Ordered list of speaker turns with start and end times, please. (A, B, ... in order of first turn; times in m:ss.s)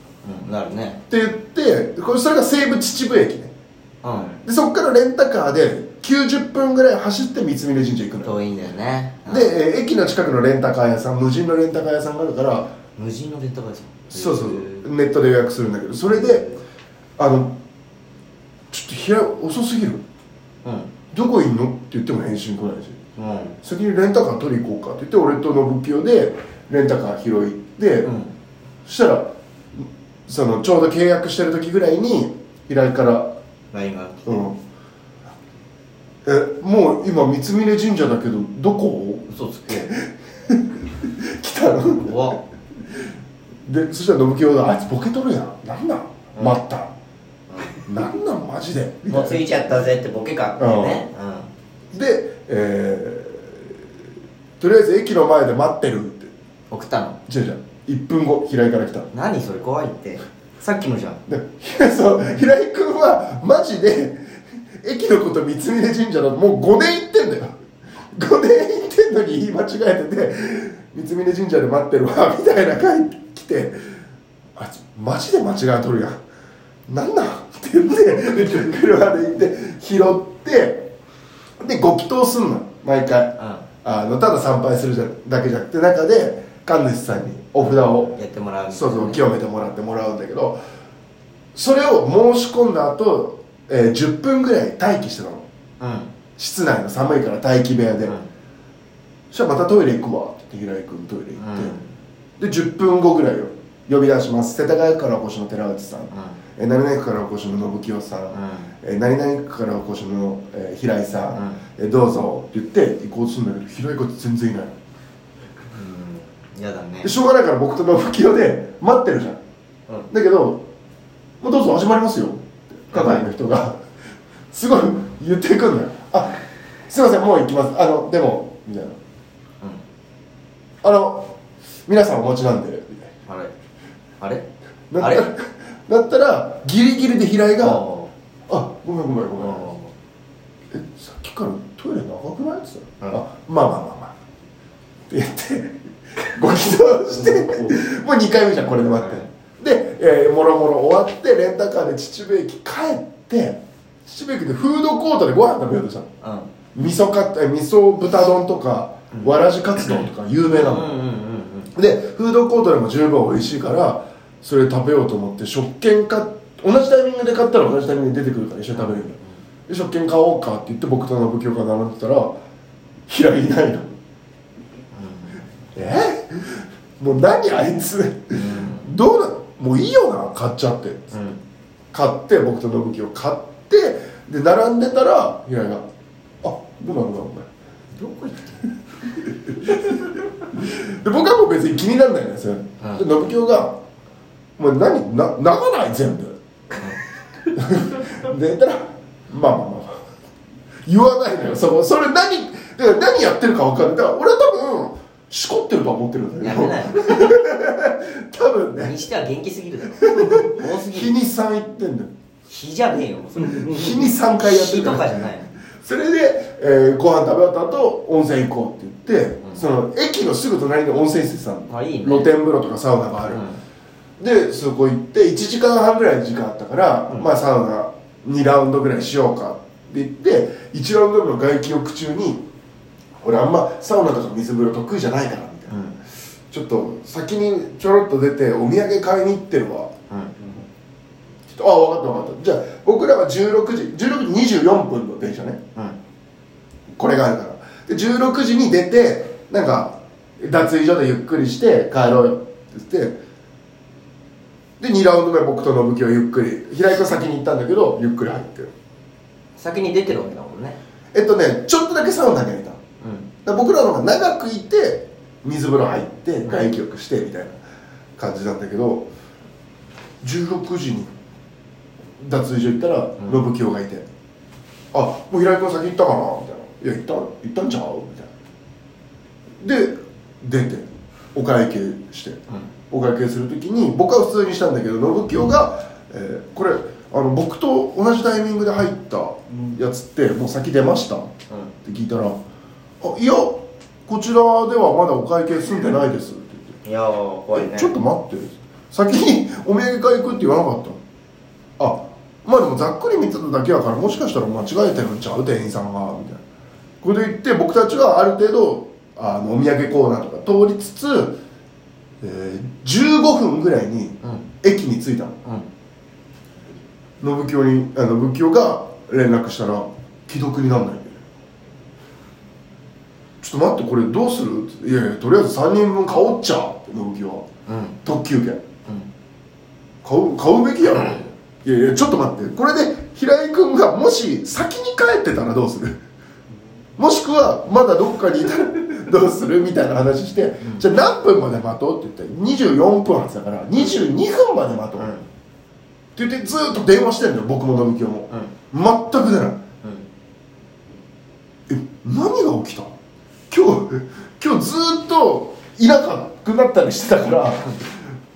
0:00.2-0:01.0 A
0:01.1-0:03.5 B
0:04.0-0:04.4 A
0:04.4-0:08.4 B
0:08.2-0:09.6 A
0:09.2-0:12.7 B
0:13.0-0:14.9 A
0:14.1-0:16.4 B
0:16.1-0:16.6 A
0:17.2-0:17.6 B
0:18.7-0:20.0 B
0:20.6-0:20.9 A
0:21.1-0:23.0 B
0:23.2-0:23.6 A
0:23.6-0:28.1 B
0:28.0-0:28.3 A
0:28.8-0:33.3 B
0:33.7-0:34.5 A
0:34.2-0:34.6 B
0:36.2-0:42.4 B
0:39.3-0:39.9 A
0:42.0-0:42.4 A
0:43.6-0:46.9 B
0:47.5-0:47.8 A
0:47.8-0:49.4 B
0:49.1-0:51.5 A
0:50.6-0:51.0 B
0:51.9-0:53.7 B
0:54.6-0:56.3 B
0:56.7-0:57.2 A
0:57.3-0:59.1 B
0:59.1-1:01.2 A
1:01.3-1:07.5 B
1:08.1-1:14.0 B
1:14.5-1:16.2 B
1:16.9-1:20.9 B
1:21.6-1:30.6 B
1:23.4-1:23.6 A
1:27.6-1:29.2 A
1:31.5-1:35.4 B
1:35.8-1:36.1 A
1:36.4-1:38.2 B
1:39.3-1:41.8 B
1:41.4-1:41.9 A
1:42.4-1:54.8 B
1:46.1-1:46.4 A
1:48.3-1:48.7 A
1:51.3-1:51.6 A
1:55.7-1:57.1 A
1:57.0-1:59.4 B
2:00.1-2:00.6 B
2:01.4-2:03.8 B
2:02.9-2:03.3 A
2:04.5-2:09.0 B
2:10.8-2:11.3 B
2:11.9-2:13.1 B
2:13.3-2:13.5 A
2:14.2-2:14.5 A
2:14.9-2:17.8 B
2:15.0-2:15.2 A
2:17.6-2:18.1 A
2:18.5-2:19.7 B
2:19.4-2:19.9 A
2:20.7-2:24.1 B
2:25.1-2:36.1 B
2:29.0-2:29.3 A
2:36.2-2:36.5 A
2:36.7-2:40.9 B
2:40.5-2:41.7 A
2:41.7-2:52.4 B
2:48.7-2:49.2 A
2:53.1-2:53.9 B
2:54.9-2:55.4 A
2:55.7-3:01.1 B
2:58.3-2:58.9 A
3:01.1-3:01.4 A
3:01.9-3:05.9 B
3:06.4-3:07.5 B
3:07.9-3:08.7 A
3:09.2-3:13.8 B
3:14.6-3:16.4 B
3:17.5-3:20.0 B
3:20.8-3:29.0 B
3:26.4-3:27.4 A
3:28.8-3:31.1 A
3:30.0-3:32.1 B
3:32.5-3:35.6 A
3:33.6-3:35.1 B
3:35.8-3:43.4 B
3:41.7-3:42.3 A
3:43.3-3:43.6 A
3:44.2-3:52.4 B
3:53.2-3:55.8 B
3:55.7-3:56.0 A
3:56.5-3:59.9 B
4:01.5-4:05.6 B
4:06.9-4:13.2 B
4:14.8-4:18.7 B
4:19.6-4:20.8 A
4:21.1-4:22.8 B
4:23.0-4:23.3 A
4:23.4-4:27.6 B
4:28.2-4:29.1 B
4:30.2-4:31.1 B
4:32.2-4:34.1 B
4:34.9-4:38.3 B
4:39.6-4:51.3 B
4:51.8-4:52.4 B
4:53.0-4:56.8 B
4:56.8-4:58.0 A
4:57.5-5:01.0 B
5:01.8-5:06.4 B
5:07.0-5:11.4 B
5:12.2-5:15.4 B
5:17.2-5:21.2 B
5:23.4-5:27.4 B
5:27.7-5:28.0 A
5:28.0-5:28.6 B
5:30.0-5:36.0 B
5:30.9-5:31.3 A
5:37.0-5:45.1 B
5:45.0-5:45.3 A
5:46.1-5:49.6 B
5:51.7-5:52.9 B
5:53.5-5:57.8 B